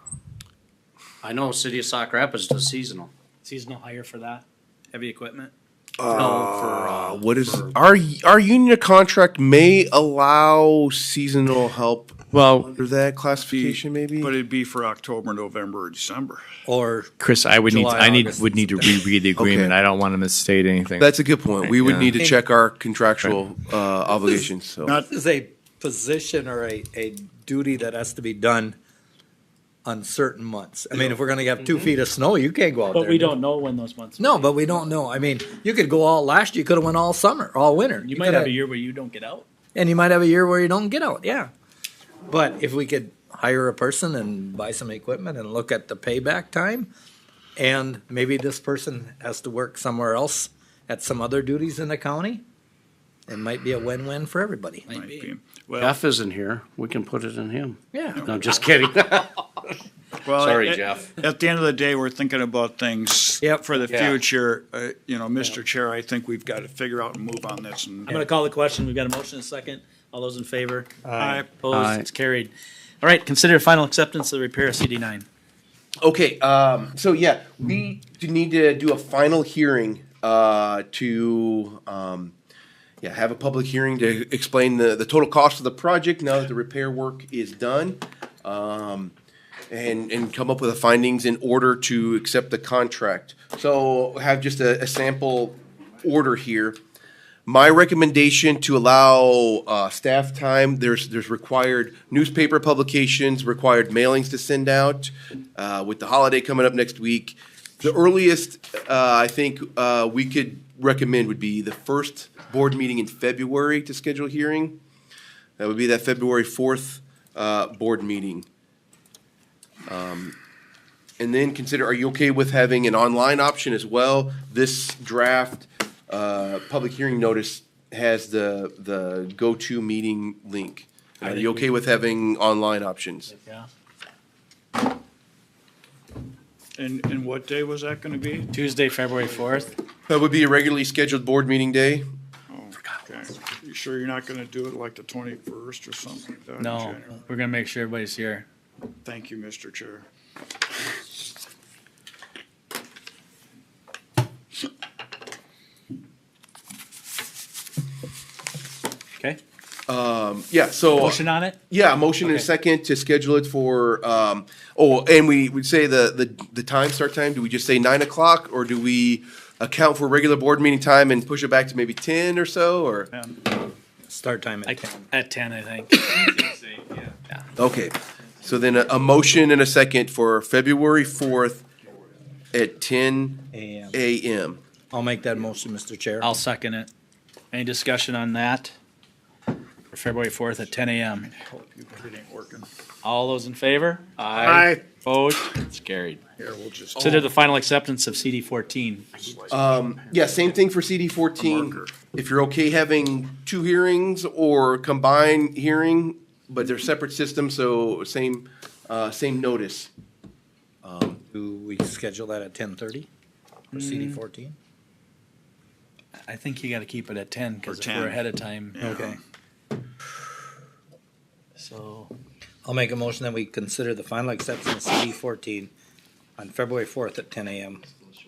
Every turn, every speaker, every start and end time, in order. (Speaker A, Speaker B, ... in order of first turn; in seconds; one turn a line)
Speaker A: 1.2-3.1
Speaker B: 3.4-5.5
Speaker C: 6.0-14.3
Speaker A: 6.1-7.6
Speaker D: 6.5-7.0
Speaker E: 12.3-12.7
Speaker D: 13.5-16.4
Speaker F: 16.6-19.1
Speaker E: 17.2-21.1
Speaker C: 19.3-19.8
Speaker C: 21.0-25.0
Speaker E: 21.6-22.2
Speaker F: 25.1-28.8
Speaker F: 29.9-33.4
Speaker B: 32.9-34.5
Speaker F: 34.2-38.5
Speaker B: 38.0-39.5
Speaker F: 39.7-41.5
Speaker F: 42.3-46.9
Speaker F: 47.5-52.4
Speaker F: 53.3-54.9
Speaker B: 54.9-55.3
Speaker D: 54.9-56.0
Speaker A: 55.8-59.7
Speaker F: 57.9-58.3
Speaker D: 58.1-58.7
Speaker D: 60.2-68.1
Speaker A: 60.3-61.1
Speaker F: 63.4-63.8
Speaker A: 63.9-64.2
Speaker B: 68.1-70.9
Speaker F: 71.0-71.5
Speaker D: 71.2-71.5
Speaker B: 71.6-75.2
Speaker E: 71.7-72.0
Speaker C: 76.0-82.3
Speaker C: 83.0-89.1
Speaker C: 89.7-96.8
Speaker C: 97.5-114.8
Speaker C: 115.6-118.5
Speaker C: 119.8-120.3
Speaker C: 121.2-133.3
Speaker B: 131.2-131.7
Speaker B: 133.3-133.7
Speaker D: 136.8-138.5
Speaker B: 138.5-139.7
Speaker C: 140.1-142.1
Speaker D: 142.5-147.2
Speaker B: 146.6-148.4
Speaker D: 149.0-150.1
Speaker C: 159.9-173.1
Speaker B: 160.9-161.6
Speaker B: 162.2-162.5
Speaker D: 173.1-173.4
Speaker F: 174.1-175.1
Speaker B: 174.7-176.6
Speaker C: 177.6-181.7
Speaker C: 182.5-184.6
Speaker F: 183.5-184.0
Speaker F: 184.9-186.4
Speaker B: 186.2-186.9
Speaker B: 187.5-188.7
Speaker B: 189.9-191.3
Speaker D: 191.3-192.7
Speaker B: 193.0-196.2
Speaker A: 194.2-194.7
Speaker D: 194.4-194.8
Speaker D: 196.4-197.3
Speaker B: 196.9-199.1
Speaker C: 199.5-209.9
Speaker D: 201.4-201.9
Speaker C: 210.8-211.2
Speaker F: 211.3-213.1
Speaker F: 213.7-214.6
Speaker B: 213.7-214.2
Speaker B: 216.2-218.8
Speaker D: 217.6-219.2
Speaker F: 218.8-219.2
Speaker B: 221.6-222.1
Speaker F: 222.6-225.7
Speaker F: 226.4-227.8